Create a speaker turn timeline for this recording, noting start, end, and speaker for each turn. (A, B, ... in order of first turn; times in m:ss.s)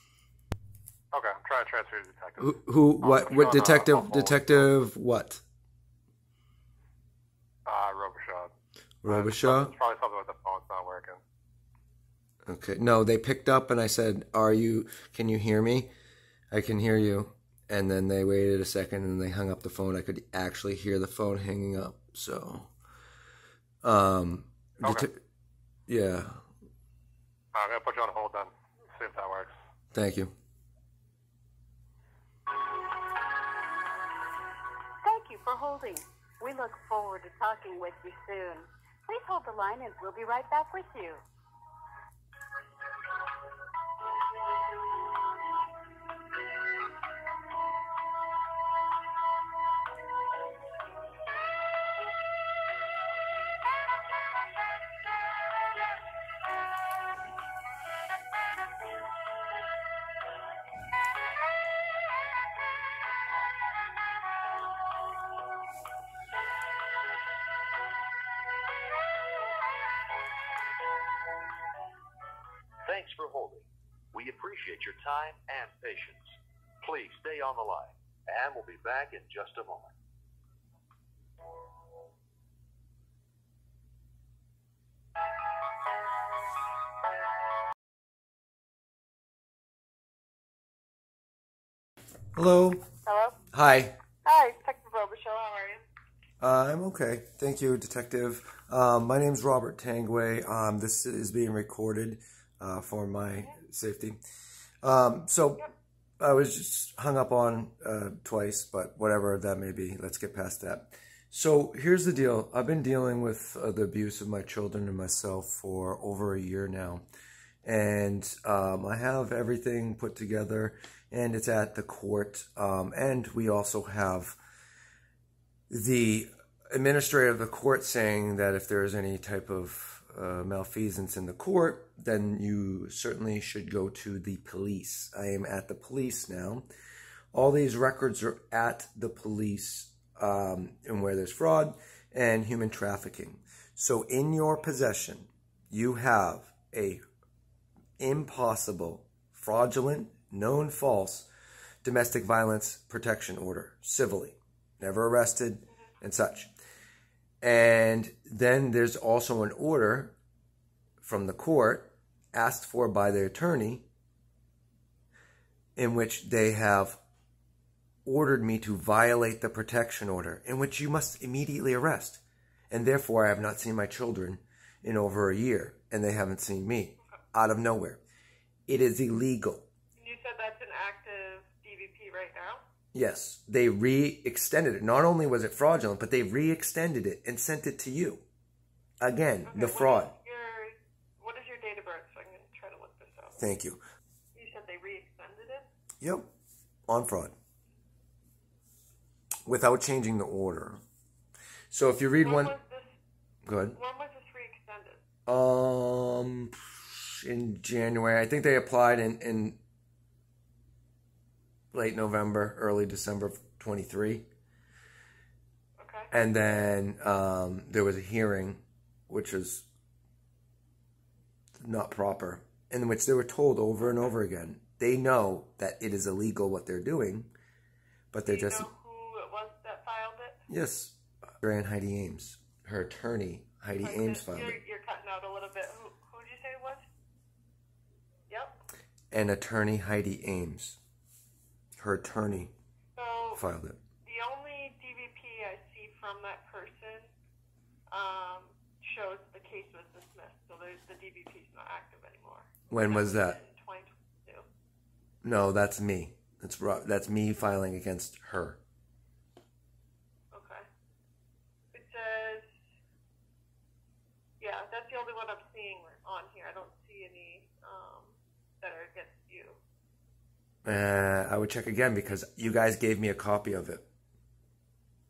0:01.1-0:04.6 A
0:02.4-0:05.4 B
0:07.6-0:08.5 A
0:09.0-0:09.7 B
0:09.0-0:11.2 A
0:12.4-0:15.9 B
0:16.5-0:22.7 B
0:23.8-0:25.1 B
0:25.9-0:26.4 B
0:27.5-0:29.5 A
0:29.9-0:30.3 B
0:35.0-0:41.2 C
1:12.8-1:16.2 D
1:16.8-1:19.9 D
1:32.3-1:32.8 B
1:33.0-1:33.4 E
1:33.5-1:33.9 B
1:34.2-1:35.8 E
1:36.4-1:44.2 B
1:44.8-1:45.6 B
1:46.2-1:57.0 B
1:57.6-2:04.4 B
2:05.7-2:16.6 B
2:17.3-2:27.0 B
2:28.0-2:31.3 B
2:31.8-2:36.5 B
2:37.4-2:40.2 B
2:41.0-2:43.8 B
2:45.8-2:47.0 B
2:48.0-2:58.0 B
2:58.7-2:59.6 B
3:00.0-3:02.6 E
3:02.9-3:08.2 B
3:09.0-3:10.1 B
3:09.4-3:13.4 E
3:13.4-3:13.8 B
3:14.3-3:15.7 E
3:16.0-3:16.3 B
3:16.9-3:17.3 B
3:19.4-3:20.8 B
3:21.7-3:22.6 B
3:22.2-3:22.9 E
3:23.4-3:23.8 B
3:23.7-3:25.0 E
3:25.3-3:29.6 B
3:31.7-3:34.3 B
3:35.8-3:36.1 E
3:36.1-3:39.6 B
3:41.6-3:47.3 B
3:48.1-3:48.7 B
3:48.2-3:50.4 E
3:50.5-3:54.6 B
3:53.8-3:56.8 E
3:58.3-3:58.5 E
3:59.1-4:00.8 B
4:01.8-4:02.5 B
4:03.0-4:03.4 E
4:03.4-4:03.8 B
4:04.0-4:07.1 E
4:07.9-4:14.4 E
4:12.7-4:13.4 B
4:15.2-4:18.6 B
4:20.3-4:20.6 E
4:21.7-4:22.5 E
4:24.4-4:29.6 E
4:30.6-4:33.8 B